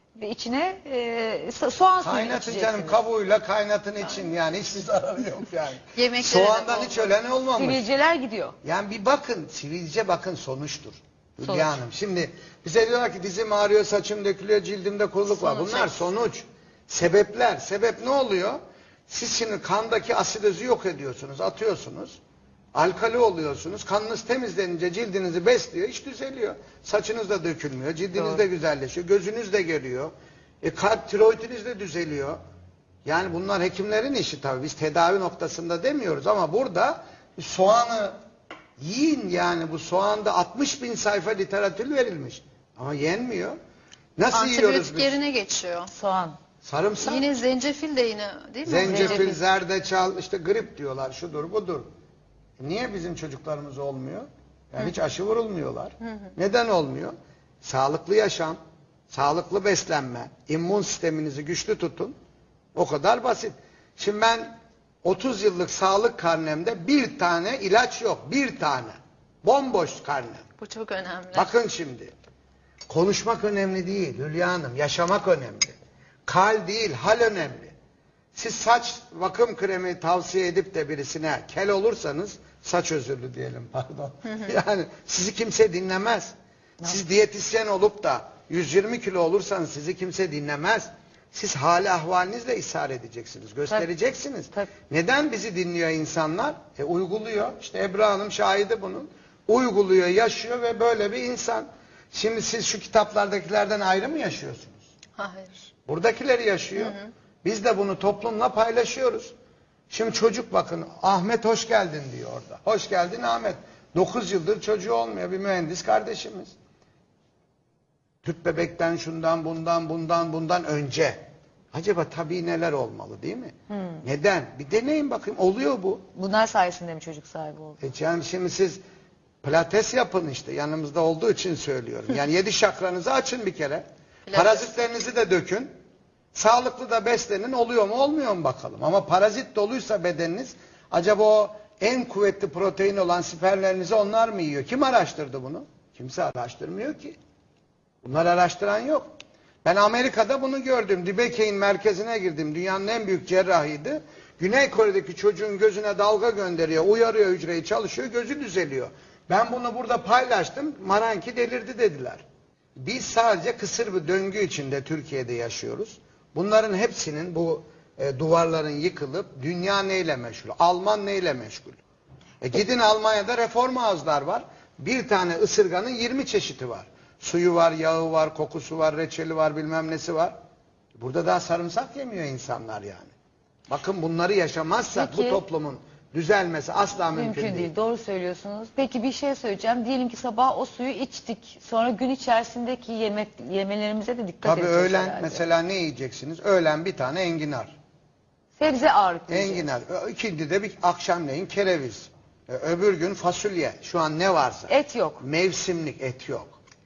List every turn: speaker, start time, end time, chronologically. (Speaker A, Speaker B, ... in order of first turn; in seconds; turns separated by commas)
Speaker A: 0.2-3.0, Speaker B: 2.0-7.8, Speaker C: 6.0-7.1, Speaker A: 7.6-8.6, Speaker B: 8.6-22.2, Speaker A: 11.4-11.8, Speaker A: 15.5-15.9, Speaker B: 22.8-32.4, Speaker B: 33.0-38.2, Speaker B: 38.8-43.5, Speaker B: 44.2-45.2, Speaker C: 44.3-45.9, Speaker A: 45.9-46.4, Speaker B: 46.6-47.3, Speaker C: 47.0-49.4, Speaker B: 48.7-51.9, Speaker A: 48.8-49.4, Speaker B: 52.6-62.1, Speaker B: 62.7-70.4, Speaker C: 70.6-71.5, Speaker B: 71.3-72.1, Speaker B: 72.9-75.7, Speaker B: 76.3-77.7, Speaker B: 78.3-104.8, Speaker C: 105.2-105.7, Speaker B: 105.9-109.3, Speaker C: 106.8-107.1, Speaker B: 109.9-116.5, Speaker B: 118.2-126.0, Speaker A: 126.1-127.8, Speaker B: 127.8-128.8, Speaker B: 129.4-135.7, Speaker C: 134.2-134.8, Speaker B: 136.3-147.2, Speaker B: 148.0-149.1, Speaker B: 149.6-162.2, Speaker B: 162.8-171.8, Speaker B: 172.4-180.3, Speaker B: 180.9-183.1, Speaker B: 183.7-187.7, Speaker A: 184.9-185.4, Speaker A: 187.1-195.4, Speaker B: 194.4-197.8, Speaker A: 198.6-199.7, Speaker B: 199.3-206.6, Speaker A: 204.7-205.2